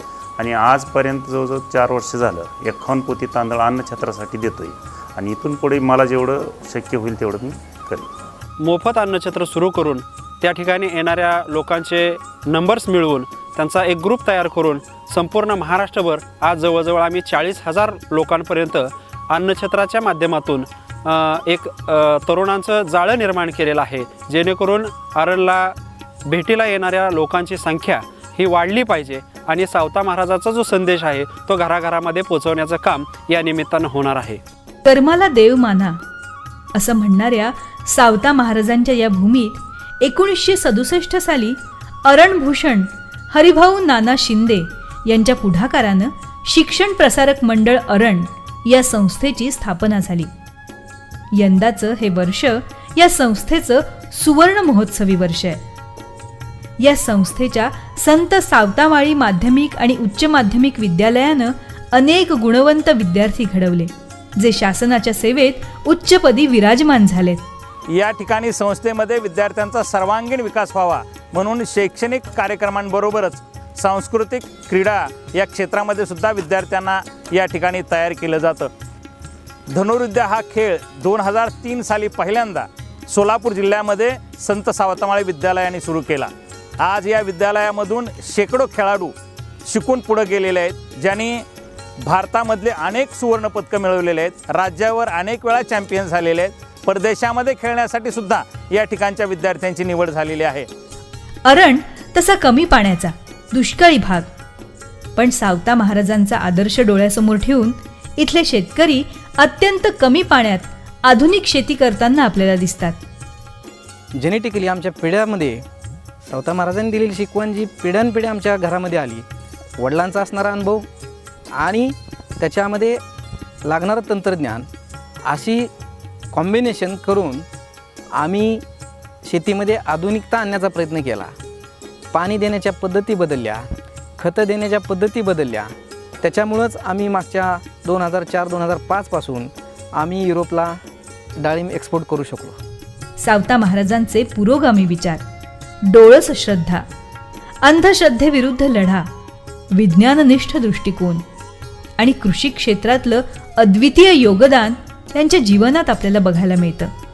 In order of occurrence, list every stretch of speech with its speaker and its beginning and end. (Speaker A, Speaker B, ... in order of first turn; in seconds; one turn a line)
Speaker A: 0.4-8.1
Speaker B: 8.6-25.8
Speaker B: 26.3-34.4
Speaker C: 34.9-36.0
Speaker C: 36.7-50.3
Speaker C: 51.3-55.6
Speaker C: 56.8-67.4
Speaker D: 67.9-78.7
Speaker D: 79.7-89.1
Speaker D: 89.7-91.4
Speaker D: 92.1-100.7
Speaker C: 101.5-104.3
Speaker C: 105.2-113.0
Speaker E: 114.2-115.6
Speaker E: 116.3-119.3
Speaker E: 119.8-120.9
Speaker E: 121.6-123.0
Speaker E: 123.7-124.7
Speaker E: 125.3-125.7
Speaker E: 126.3-127.5
Speaker E: 128.2-128.6
Speaker E: 129.2-131.3
Speaker E: 132.1-133.7
Speaker E: 134.2-140.8
Speaker E: 141.4-142.6
Speaker C: 143.2-145.2
Speaker C: 145.8-146.8
Speaker C: 147.6-149.1
Speaker C: 149.7-151.2
Speaker C: 152.0-156.9